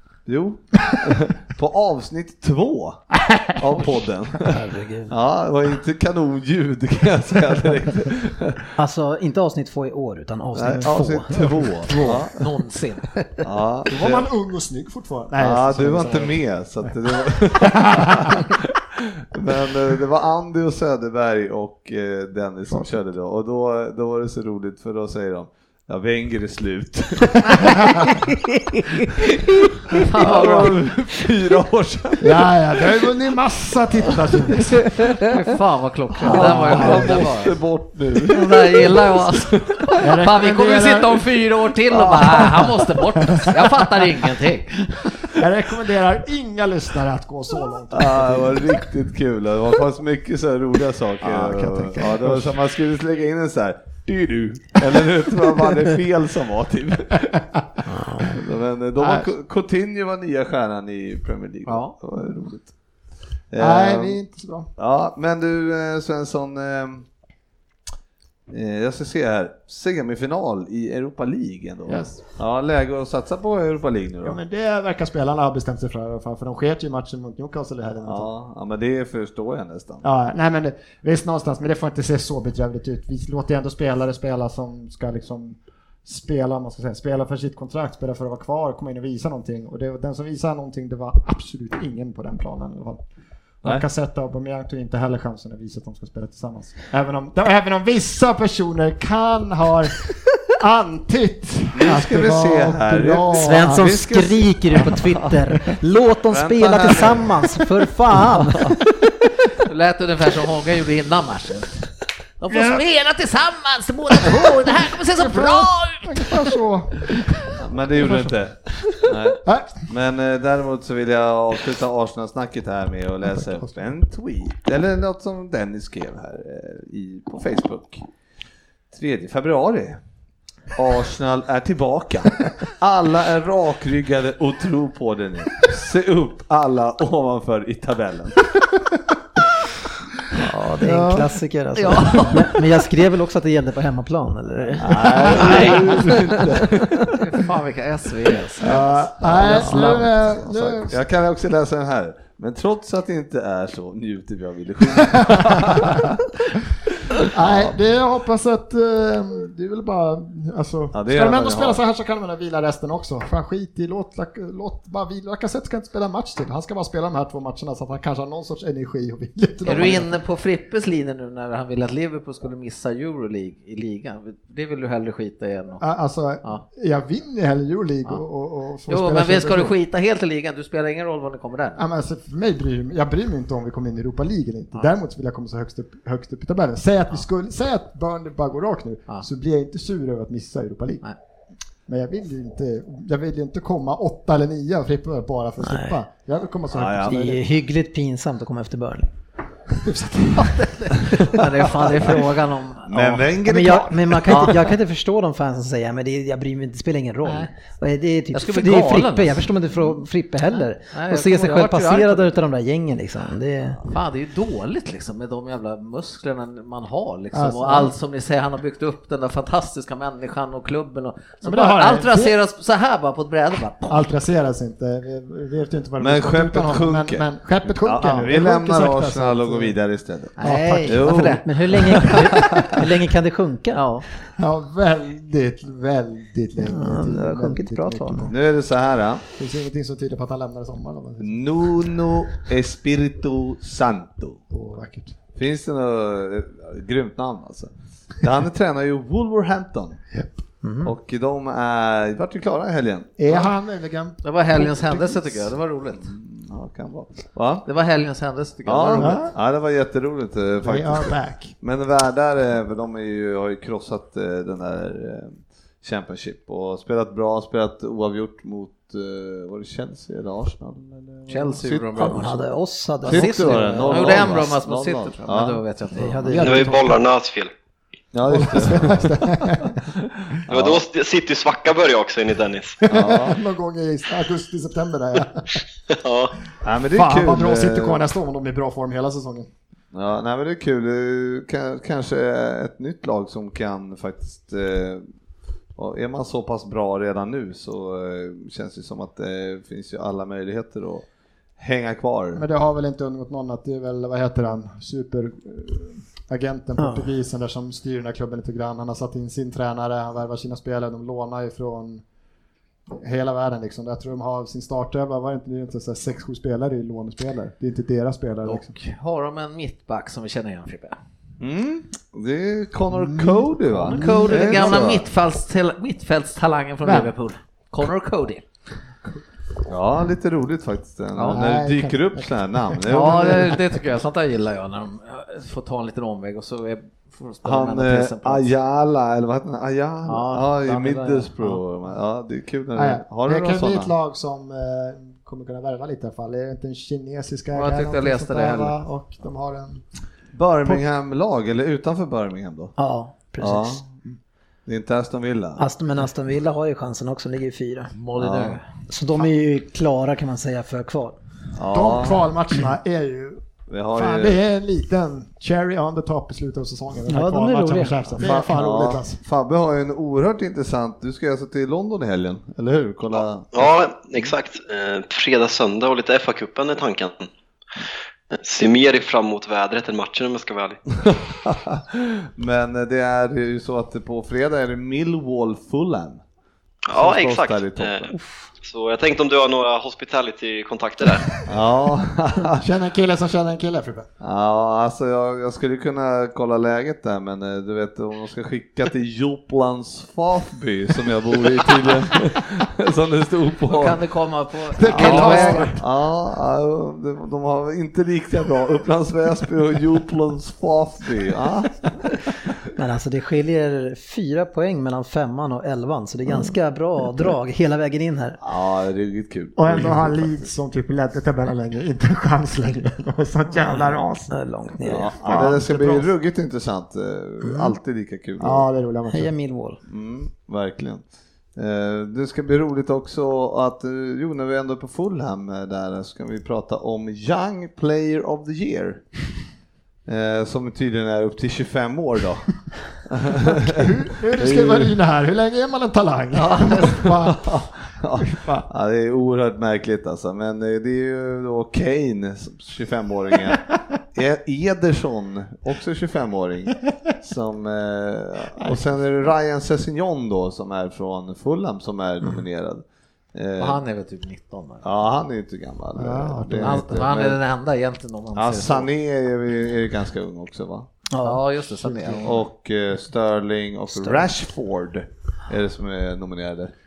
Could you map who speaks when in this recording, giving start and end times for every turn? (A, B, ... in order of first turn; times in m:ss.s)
0:00.3-0:08.7 A
0:04.5-0:05.1 B
0:08.8-0:12.2 B
0:10.5-0:12.3 A
0:12.1-0:13.1 C
0:13.4-0:14.3 A
0:13.9-0:16.4 D
0:15.4-0:28.0 A
0:17.8-0:18.4 D
0:27.7-0:28.1 D
0:30.0-0:30.8 C
0:30.2-0:33.1 A
0:32.2-0:34.8 D
0:34.0-0:34.6 A
0:34.6-0:37.5 C
0:36.2-0:39.9 A
0:36.2-0:37.2 D
0:38.3-0:45.1 C
0:40.0-0:41.3 D
0:41.9-0:42.7 A
0:45.3-0:48.8 D
0:47.9-0:57.5 A
0:51.2-0:52.6 D
0:57.9-0:58.3 B
0:58.2-1:02.8 A
0:59.0-0:59.3 D
1:01.7-1:02.0 C
1:03.5-1:04.2 A
1:03.6-1:04.7 D
1:04.8-1:07.1 A
1:08.5-1:14.4 A
1:11.9-1:12.2 D
1:14.2-1:18.3 D
1:18.0-1:20.0 A
1:20.0-1:33.0 D
1:33.6-1:44.0 D
1:41.7-1:45.3 A
1:43.4-1:48.8 B
1:46.3-1:47.6 A
1:49.6-1:56.6 C
1:52.5-1:52.8 D
1:55.2-1:57.2 D
1:57.6-2:08.1 A
1:59.4-1:59.9 D
2:03.4-2:03.7 D
2:08.9-2:10.0 A
2:10.8-2:18.4 A
2:20.4-2:26.6 B
2:20.8-2:21.3 D
2:21.8-2:22.5 C
2:24.8-2:27.1 A
2:25.3-2:25.9 C
2:25.4-2:25.8 D
2:27.1-2:30.0 C
2:28.6-2:36.2 A
2:28.6-2:31.0 D
2:37.2-2:50.1 D
2:37.4-2:37.8 A
2:40.9-2:41.8 A
2:49.6-2:55.8 C
2:55.8-2:59.8 D
2:58.9-3:01.8 C
3:01.8-3:11.1 D
3:11.9-3:17.4 D
3:15.6-3:16.0 B
3:16.7-3:17.3 A
3:17.0-3:19.1 B
3:19.8-3:21.4 D
3:21.1-3:23.2 C
3:22.9-3:24.7 A
3:23.4-3:33.9 B
3:24.3-3:24.6 C
3:28.3-3:29.5 C
3:30.9-3:32.3 C
3:33.8-3:44.0 C
3:37.3-3:37.9 D
3:41.4-3:42.3 D
3:43.9-3:49.8 D
3:46.0-3:52.7 A
3:50.4-3:52.1 C
3:50.4-3:50.9 D
3:50.5-3:50.8 B
3:51.4-3:53.8 B
3:53.7-3:54.0 C
3:54.4-3:58.3 D
3:56.6-3:58.3 B
3:58.3-3:59.2 A
3:59.4-4:01.4 D
4:01.2-4:04.4 A
4:04.5-4:05.2 D
4:05.4-4:10.0 A
4:10.6-4:10.9 B
4:10.8-4:13.5 A
4:13.2-4:15.4 D
4:14.2-4:16.1 C
4:16.0-4:17.7 A
4:17.6-4:19.3 C
4:18.6-4:32.5 A
4:19.0-4:19.3 D
4:20.6-4:21.6 D
4:31.3-4:32.4 C
4:32.0-4:34.4 B
4:33.0-4:36.2 A
4:33.0-4:36.4 C
4:36.0-4:37.0 B
4:36.3-4:37.0 D
4:36.4-4:37.5 E
4:38.1-4:40.8 A
4:38.3-4:39.8 D
4:40.5-4:42.8 E
4:42.8-4:45.6 D
4:42.9-4:43.4 A
4:45.9-4:46.3 E
4:46.6-4:48.0 A
4:46.9-4:49.5 D
4:49.9-4:55.0 A
4:55.8-5:01.1 A
5:01.6-5:02.4 A
5:02.3-5:12.0 D
5:06.8-5:07.1 B
5:12.9-5:18.7 D
5:18.4-5:21.0 C
5:21.4-5:25.1 A
5:23.8-5:24.9 D
5:23.8-5:28.4 C
5:26.8-5:27.1 D
5:29.7-5:33.6 A
5:31.2-5:31.4 C
5:31.3-5:33.8 D
5:32.9-5:38.5 C
5:37.4-5:43.9 A
5:40.1-5:41.6 C
5:42.8-5:49.9 D
5:47.5-5:48.8 C
5:50.3-5:52.8 A
5:52.8-5:53.8 B
5:53.4-5:53.9 A
5:54.7-5:55.6 A
5:55.6-5:57.9 B
5:57.9-5:58.6 C
5:58.2-5:58.6 A
5:58.9-6:01.2 B
6:01.5-6:02.3 A
6:01.7-6:09.2 D
6:03.7-6:04.4 A
6:07.1-6:08.2 B
6:08.2-6:13.7 A
6:13.2-6:17.3 E
6:18.3-6:20.8 E
6:21.1-6:26.2 A
6:26.9-6:31.3 E
6:26.9-6:28.1 A
6:28.1-6:28.5 B
6:31.5-6:32.6 A
6:32.5-6:34.1 D
6:34.2-6:44.0 A
6:43.7-6:45.8 C
6:44.8-6:45.8 D
6:44.9-6:52.3 A
6:52.8-6:58.4 B
6:58.4-7:00.5 A
6:59.6-7:04.3 D
7:04.3-7:05.4 B
7:04.8-7:08.7 A
7:05.2-7:06.1 D
7:07.4-7:07.7 B
7:08.4-7:09.3 D
7:09.1-7:09.8 B
7:09.9-7:19.1 A
7:20.1-7:24.9 A
7:23.5-7:27.6 D
7:26.3-7:33.6 A
7:28.2-7:28.7 D
7:34.1-7:43.8 A
7:38.6-7:38.8 D
7:43.6-7:44.9 C
7:44.8-7:47.4 A
7:46.0-7:46.9 D
7:46.6-7:48.9 C
7:48.3-7:50.9 A
7:51.1-7:52.3 B
7:51.2-7:52.4 C
7:52.2-7:56.7 A
7:53.9-7:54.3 B